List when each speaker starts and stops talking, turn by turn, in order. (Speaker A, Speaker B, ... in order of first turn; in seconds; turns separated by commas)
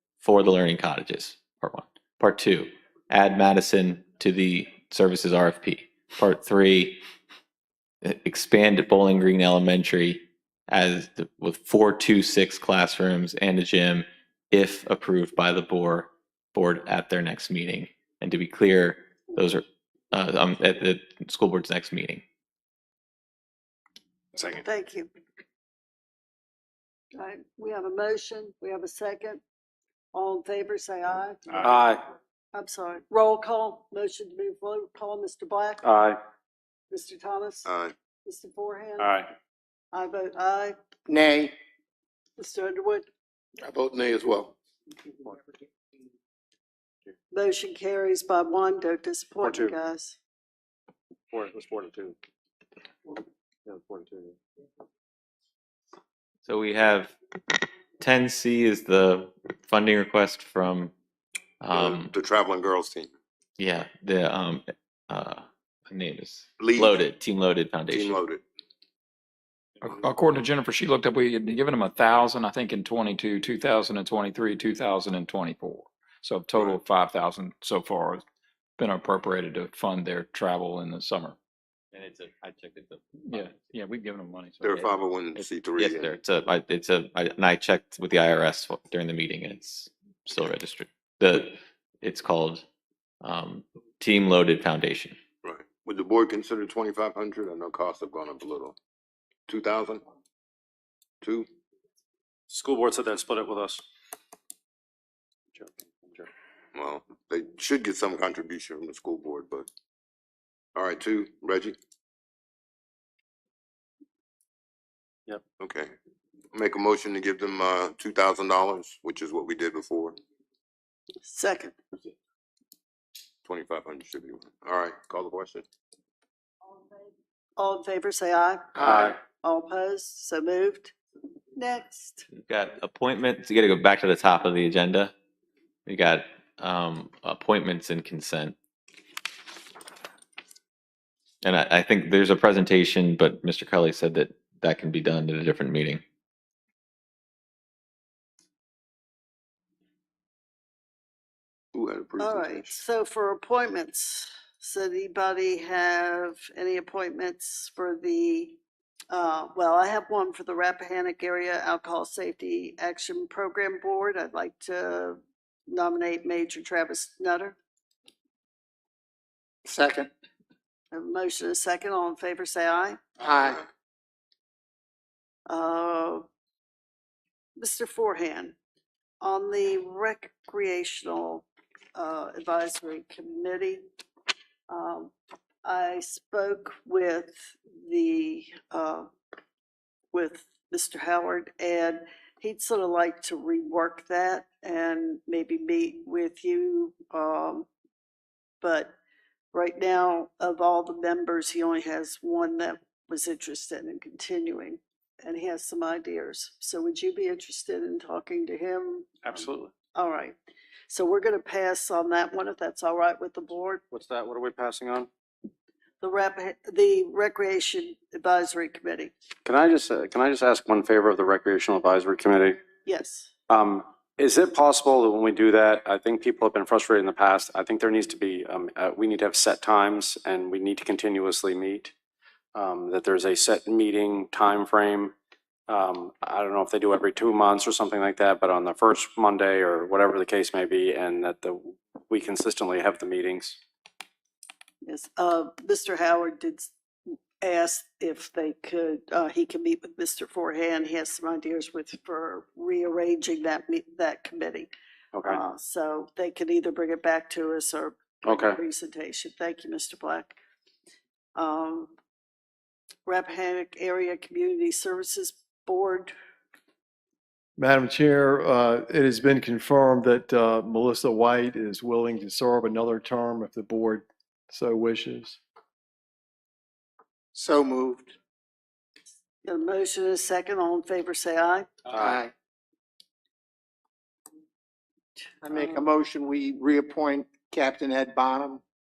Speaker A: 0.2-7.0, Speaker A: 8.0-22.2, Speaker B: 24.4-24.6, Speaker C: 24.6-25.1, Speaker C: 27.1-29.4, Speaker C: 30.1-31.7, Speaker B: 31.6-32.0, Speaker C: 32.5-35.9, Speaker B: 35.8-36.2, Speaker C: 36.9-37.7, Speaker D: 37.7-37.9, Speaker C: 38.2-39.1, Speaker B: 39.0-39.3, Speaker C: 39.9-40.8, Speaker E: 41.1-41.5, Speaker C: 42.4-43.1, Speaker D: 43.6-44.5, Speaker C: 47.3-50.2, Speaker B: 49.4-49.7, Speaker B: 51.3-52.2, Speaker B: 53.7-54.4, Speaker A: 56.5-57.2, Speaker A: 58.0-60.9, Speaker A: 61.6-62.1, Speaker D: 61.7-63.1, Speaker A: 63.6-68.2, Speaker D: 66.6-67.0, Speaker D: 67.9-68.4, Speaker F: 69.8-78.2, Speaker F: 78.8-81.4, Speaker A: 81.9-83.5, Speaker F: 83.3-85.4, Speaker D: 84.6-86.1, Speaker A: 85.8-92.7, Speaker A: 93.2-95.2, Speaker D: 95.4-98.8, Speaker D: 99.5-100.0, Speaker D: 101.2-101.5, Speaker B: 102.5-103.8, Speaker B: 105.5-106.3, Speaker D: 106.8-109.7, Speaker D: 110.8-111.8, Speaker D: 115.6-115.9, Speaker D: 116.5-120.2, Speaker C: 121.2-121.8, Speaker D: 123.5-125.7, Speaker C: 126.7-130.9, Speaker E: 128.8-129.1, Speaker B: 128.8-129.2, Speaker C: 131.6-132.3, Speaker A: 132.3-135.1, Speaker A: 135.9-138.6, Speaker A: 141.4-146.0, Speaker D: 151.7-152.7, Speaker C: 152.2-158.6, Speaker C: 159.1-167.6, Speaker E: 169.7-170.1, Speaker C: 170.9-173.0, Speaker E: 173.2-173.6, Speaker C: 175.5-176.2, Speaker C: 177.6-178.6, Speaker C: 179.2-183.8, Speaker C: 184.7-185.1, Speaker C: 185.6-189.1, Speaker C: 190.1-197.7, Speaker C: 198.6-198.9, Speaker C: 199.5-209.2, Speaker B: 209.2-209.7, Speaker C: 209.9-210.4, Speaker C: 210.9-213.8, Speaker B: 213.9-215.1, Speaker C: 216.0-219.1, Speaker B: 219.4-222.6, Speaker C: 222.8-223.3, Speaker B: 223.5-231.9, Speaker B: 232.6-235.2, Speaker B: 235.7-243.6, Speaker C: 244.8-246.7, Speaker C: 247.4-254.7, Speaker B: 255.1-255.4, Speaker C: 255.3-260.4, Speaker B: 258.2-258.6, Speaker C: 261.4-261.9, Speaker C: 263.1-266.1, Speaker G: 267.6-275.4, Speaker E: 277.3-278.1, Speaker C: 279.4-281.7, Speaker B: 281.9-282.2, Speaker E: 281.9-282.3, Speaker E: 285.4-288.6